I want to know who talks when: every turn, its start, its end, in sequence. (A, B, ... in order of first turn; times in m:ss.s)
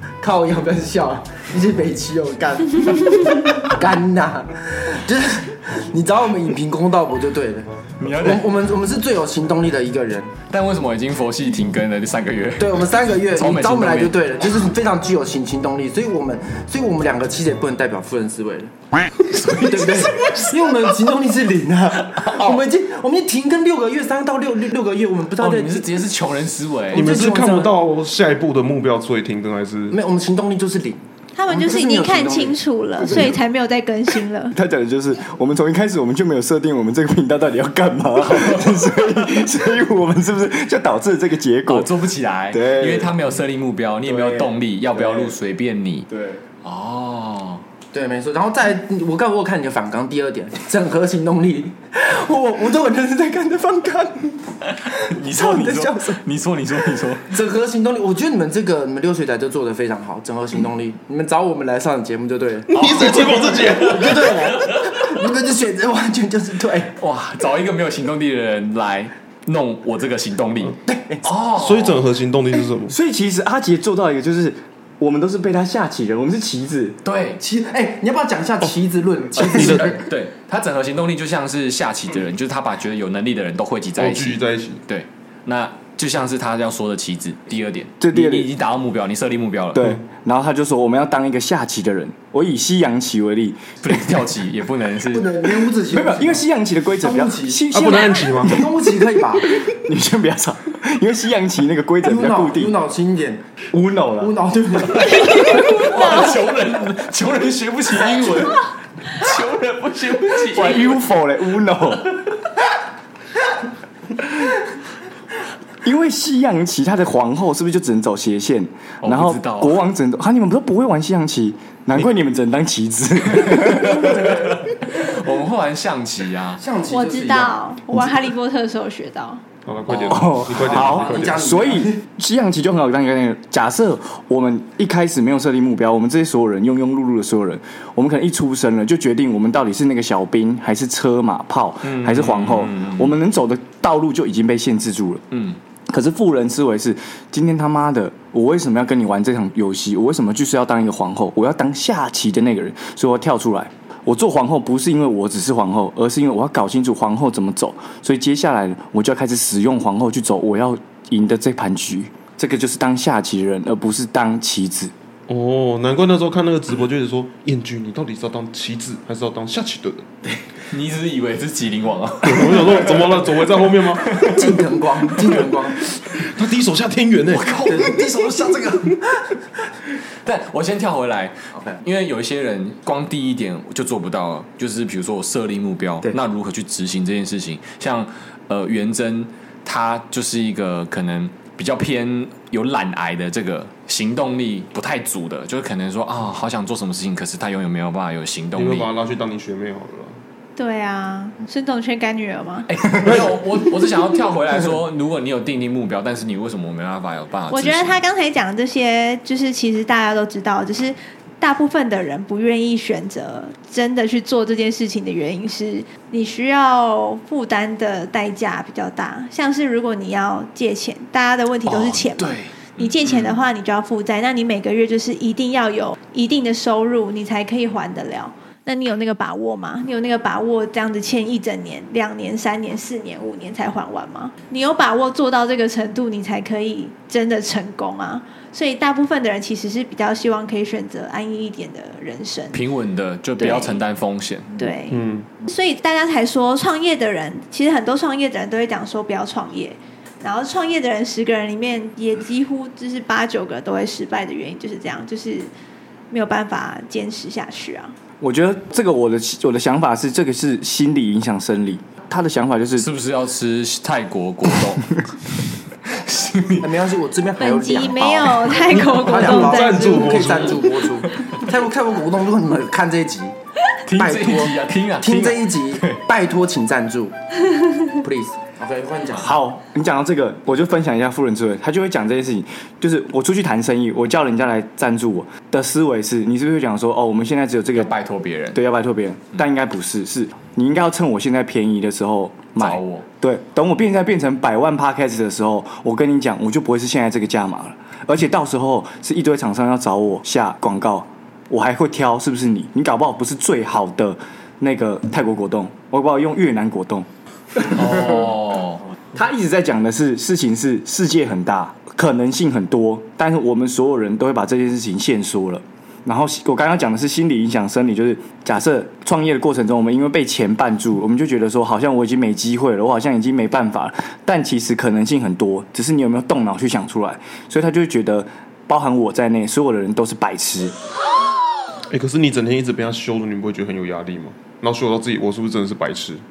0:00.2-0:10.3 A
0:08.0-0:08.4 B
0:10.5-0:14.2 B
0:12.6-0:18.7 A
0:19.2-0:20.6 B
0:19.6-0:25.9 A
0:22.0-0:22.6 B
0:25.4-0:27.2 B
0:26.9-0:27.8 A
0:26.9-0:30.0 C
0:29.9-0:32.6 A
0:31.3-0:34.6 D
0:34.5-0:41.9 E
0:38.3-0:38.7 B
0:41.6-0:46.1 B
0:42.5-0:43.1 E
0:44.0-0:45.3 E
0:46.1-0:46.4 E
0:46.6-0:47.6 B
0:47.9-0:56.2 A
0:54.6-0:57.3 B
0:57.3-1:06.9 A
1:02.7-1:04.4 C
1:03.8-1:05.0 B
1:07.0-1:12.0 B
1:10.8-1:11.2 A
1:11.5-1:12.9 C
1:12.9-1:17.0 E
1:17.0-1:17.4 B
1:17.4-1:20.0 A
1:19.4-1:20.0 C
1:19.6-1:30.0 B
1:24.0-1:24.8 C
1:28.0-1:28.5 E
1:29.8-1:34.1 E
1:33.8-1:35.3 B
1:35.1-1:36.4 A
1:35.8-1:42.7 E
1:37.0-1:37.6 A
1:37.7-1:38.6 C
1:38.4-1:39.5 A
1:42.0-1:43.4 A
1:43.7-1:44.3 E
1:44.2-1:46.2 A
1:45.0-1:51.0 B
1:50.5-1:52.1 E
1:55.8-2:04.2 E
1:59.0-1:59.8 B
2:03.3-2:06.6 B
2:06.6-2:07.6 A
2:06.9-2:09.4 D
2:09.6-2:11.5 C
2:09.9-2:25.2 E
2:10.0-2:12.0 A
2:21.8-2:23.2 B
2:25.3-2:25.6 B
2:25.9-2:44.9 E
2:45.3-2:50.1 C
2:50.7-2:53.3 B
2:52.2-2:54.4 C
2:53.9-2:54.6 B
2:54.2-2:55.8 A
2:56.1-2:57.6 C
2:57.3-2:59.0 B
2:57.7-2:58.5 A
3:00.2-3:18.9 B
3:18.5-3:20.2 C
3:20.6-3:22.7 D
3:22.7-3:28.0 B
3:27.5-4:02.6 D
3:41.6-3:43.4 B
4:02.5-4:04.6 B
4:03.4-4:03.8 D
4:04.6-4:15.5 D
4:04.9-4:05.2 C
4:16.1-4:17.9 D
4:18.2-4:22.9 E
4:22.8-4:25.0 B
4:25.8-4:26.7 B
4:26.6-4:33.3 A
4:27.4-4:30.2 D
4:28.7-4:30.7 C
4:31.0-4:31.4 B
4:33.8-4:36.0 B
4:34.0-4:37.1 A
4:37.9-4:39.3 A
4:39.1-4:47.9 E
4:47.7-4:48.6 B
4:48.5-5:08.3 E
4:52.6-4:53.0 B
5:07.6-5:08.8 B
5:09.1-5:30.7 E
5:31.9-5:36.2 C